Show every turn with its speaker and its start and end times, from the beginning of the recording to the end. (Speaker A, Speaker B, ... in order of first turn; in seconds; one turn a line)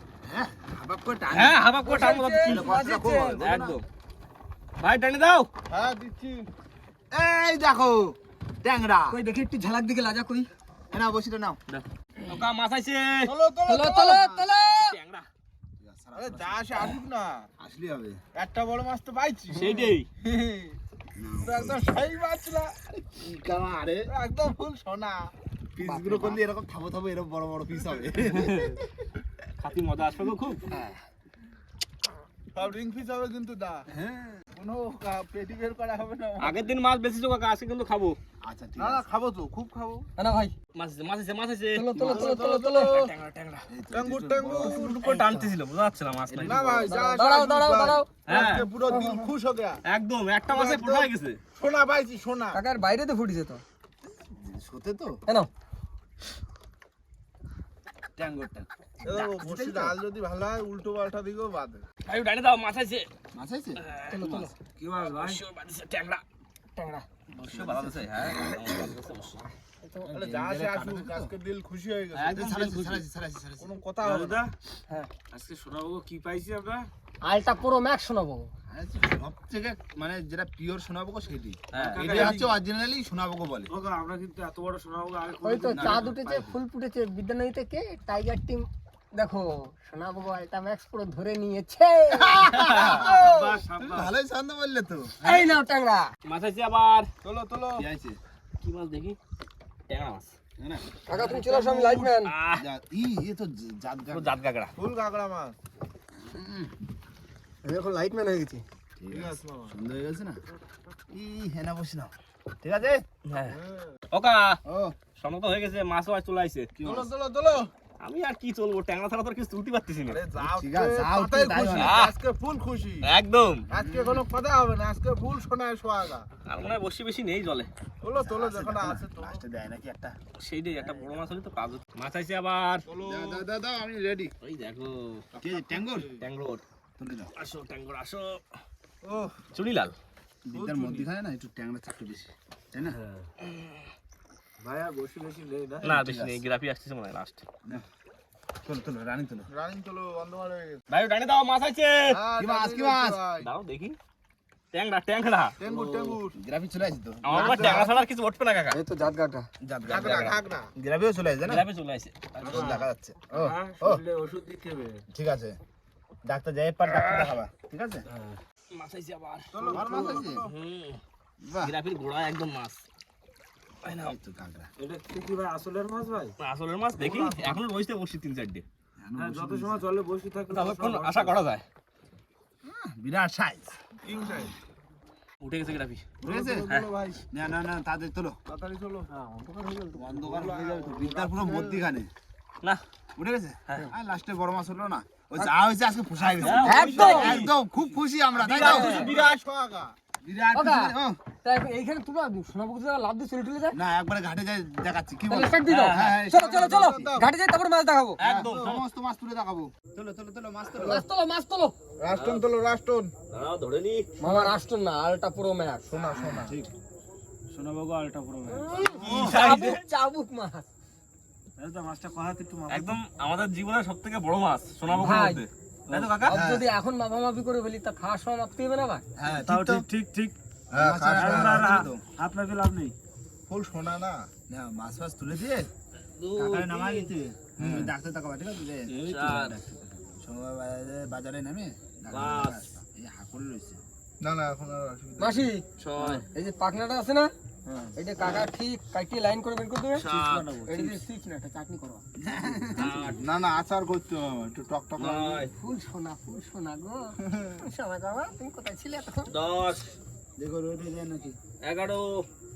Speaker A: 0.2-1.7
Speaker B: 1.3-2.7
Speaker C: 1.8-3.4
Speaker A: 2.3-3.8
Speaker B: 3.4-3.9
Speaker B: 4.8-5.5
Speaker D: 5.7-6.5
Speaker A: 7.1-9.2
Speaker C: 9.1-10.5
Speaker A: 10.9-11.6
Speaker B: 11.7-13.4
Speaker D: 13.2-14.4
Speaker C: 13.7-15.0
Speaker B: 14.8-15.3
Speaker A: 15.8-17.0
Speaker D: 16.1-17.5
Speaker A: 17.6-18.2
Speaker D: 18.3-20.8
Speaker B: 19.5-20.1
Speaker A: 21.2-21.8
Speaker D: 21.4-22.8
Speaker A: 23.1-24.1
Speaker D: 24.1-25.3
Speaker A: 25.8-28.9
Speaker C: 25.8-26.4
Speaker B: 28.3-28.7
Speaker B: 29.6-30.6
Speaker C: 30.7-31.0
Speaker D: 32.5-33.9
Speaker A: 33.9-34.6
Speaker D: 34.6-36.5
Speaker B: 36.4-38.2
Speaker A: 38.4-39.0
Speaker D: 38.8-40.1
Speaker C: 40.2-40.5
Speaker B: 40.8-42.0
Speaker C: 41.7-42.9
Speaker D: 42.0-43.1
Speaker B: 42.8-43.7
Speaker A: 43.7-45.5
Speaker D: 43.9-45.0
Speaker B: 44.5-46.6
Speaker A: 46.3-47.0
Speaker D: 46.4-49.8
Speaker C: 46.9-48.1
Speaker B: 48.3-48.7
Speaker C: 48.9-49.2
Speaker B: 49.9-51.4
Speaker D: 50.5-52.6
Speaker C: 52.5-53.6
Speaker A: 54.2-55.2
Speaker A: 58.2-60.0
Speaker D: 59.0-61.9
Speaker B: 62.1-63.1
Speaker A: 63.3-63.8
Speaker B: 63.8-66.2
Speaker C: 64.1-64.5
Speaker E: 64.8-65.4
Speaker C: 66.7-67.1
Speaker B: 67.3-69.4
Speaker A: 67.5-68.3
Speaker C: 69.8-70.1
Speaker A: 70.1-71.3
Speaker D: 70.1-72.5
Speaker B: 72.1-73.0
Speaker A: 72.3-73.8
Speaker D: 73.6-74.4
Speaker E: 74.0-76.9
Speaker C: 77.2-78.5
Speaker A: 78.7-83.7
Speaker B: 81.7-82.1
Speaker E: 81.7-82.5
Speaker D: 82.0-82.4
Speaker E: 83.7-86.5
Speaker C: 85.4-92.7
Speaker A: 85.7-86.1
Speaker A: 92.2-93.2
Speaker B: 92.5-93.0
Speaker D: 92.9-93.7
Speaker E: 93.1-94.1
Speaker A: 93.7-95.2
Speaker C: 95.2-96.1
Speaker B: 96.2-97.1
Speaker D: 97.2-97.8
Speaker A: 97.8-98.2
Speaker B: 98.6-99.2
Speaker B: 99.9-100.3
Speaker A: 100.6-101.9
Speaker C: 101.1-102.3
Speaker D: 101.4-101.7
Speaker B: 102.2-102.7
Speaker A: 102.5-104.4
Speaker B: 104.1-104.7
Speaker D: 104.8-105.6
Speaker C: 107.6-108.6
Speaker A: 109.0-110.4
Speaker D: 109.1-109.8
Speaker A: 111.1-113.0
Speaker B: 113.3-113.6
Speaker D: 113.5-113.9
Speaker B: 114.1-114.6
Speaker A: 114.7-115.0
Speaker B: 115.2-116.7
Speaker A: 116.8-117.1
Speaker D: 116.8-117.7
Speaker B: 118.0-120.2
Speaker D: 120.1-123.1
Speaker A: 120.4-122.0
Speaker B: 121.8-122.2
Speaker B: 123.0-123.7
Speaker D: 123.7-126.3
Speaker A: 123.8-124.3
Speaker B: 126.5-127.7
Speaker D: 128.0-129.4
Speaker A: 128.2-130.2
Speaker B: 130.4-132.9
Speaker D: 132.9-133.5
Speaker A: 133.0-134.3
Speaker B: 134.4-135.3
Speaker D: 135.4-136.1
Speaker A: 135.4-136.2
Speaker B: 136.2-136.6
Speaker A: 137.0-137.3
Speaker B: 137.4-138.4
Speaker D: 139.0-139.4
Speaker B: 139.5-140.0
Speaker A: 140.5-143.0
Speaker D: 140.5-141.1
Speaker E: 144.6-145.8
Speaker D: 144.8-145.9
Speaker A: 145.8-146.4
Speaker B: 145.8-147.4
Speaker A: 148.6-149.5
Speaker D: 149.5-150.8
Speaker B: 150.9-152.2
Speaker D: 152.1-153.5
Speaker A: 152.3-153.2
Speaker B: 153.4-154.0
Speaker B: 154.7-155.6
Speaker D: 155.6-156.4
Speaker A: 155.7-158.0
Speaker B: 157.2-158.8
Speaker D: 157.3-157.9
Speaker C: 158.7-159.5
Speaker A: 159.6-161.7
Speaker D: 159.9-160.7
Speaker B: 161.4-162.8
Speaker A: 162.4-164.0
Speaker D: 162.4-162.8
Speaker E: 163.3-165.0
Speaker A: 165.1-165.6
Speaker A: 166.2-168.0
Speaker B: 167.0-167.3
Speaker B: 168.1-171.0
Speaker D: 169.5-170.5
Speaker A: 169.6-170.5
Speaker A: 171.4-171.7
Speaker B: 171.6-172.8
Speaker B: 173.8-174.2
Speaker A: 173.9-174.7
Speaker E: 174.8-176.3
Speaker B: 176.4-178.7
Speaker D: 177.0-177.6
Speaker A: 179.0-179.8
Speaker E: 179.2-181.5
Speaker B: 180.5-181.7
Speaker A: 182.6-183.8
Speaker D: 184.0-184.5
Speaker B: 185.4-186.1
Speaker A: 186.2-186.7
Speaker D: 186.2-187.2
Speaker A: 187.3-188.4
Speaker D: 188.5-189.1
Speaker C: 189.2-190.1
Speaker A: 189.9-192.1
Speaker D: 190.3-191.8
Speaker A: 193.2-199.2
Speaker B: 196.3-197.5
Speaker D: 196.5-196.8
Speaker C: 196.6-197.4
Speaker B: 198.4-199.4
Speaker D: 198.5-200.0
Speaker A: 200.2-201.2
Speaker C: 200.5-203.8
Speaker A: 203.7-207.2
Speaker C: 205.3-208.2
Speaker B: 205.7-206.2
Speaker D: 206.3-207.3
Speaker B: 208.2-208.8
Speaker A: 208.2-211.0
Speaker C: 210.8-211.8
Speaker D: 212.0-213.1
Speaker B: 212.1-212.5
Speaker B: 213.3-214.1
Speaker C: 214.2-215.9
Speaker D: 215.9-216.6
Speaker A: 216.2-216.7
Speaker E: 217.5-219.1
Speaker C: 218.5-220.7
Speaker B: 218.9-219.8
Speaker A: 219.0-219.3
Speaker E: 221.6-223.0
Speaker B: 222.7-226.4
Speaker C: 225.0-225.4
Speaker A: 225.9-226.7
Speaker C: 226.2-229.0
Speaker A: 229.2-229.8
Speaker E: 229.3-230.3
Speaker D: 230.7-231.7
Speaker A: 230.7-232.0
Speaker E: 231.1-232.9
Speaker D: 233.5-234.3
Speaker A: 234.5-235.7
Speaker B: 236.2-237.1
Speaker A: 236.4-243.8
Speaker D: 237.6-237.9
Speaker B: 238.9-239.6
Speaker B: 242.1-242.6
Speaker D: 244.2-245.5
Speaker C: 245.2-245.6
Speaker B: 245.8-246.3
Speaker C: 246.3-247.3
Speaker C: 248.0-250.1
Speaker B: 250.0-250.6
Speaker E: 250.0-251.0
Speaker C: 250.7-252.0
Speaker A: 252.2-253.1
Speaker B: 252.8-253.2
Speaker D: 253.0-255.5
Speaker B: 255.0-255.5
Speaker C: 255.5-259.3
Speaker B: 259.3-259.9
Speaker A: 260.4-261.4
Speaker B: 261.6-262.2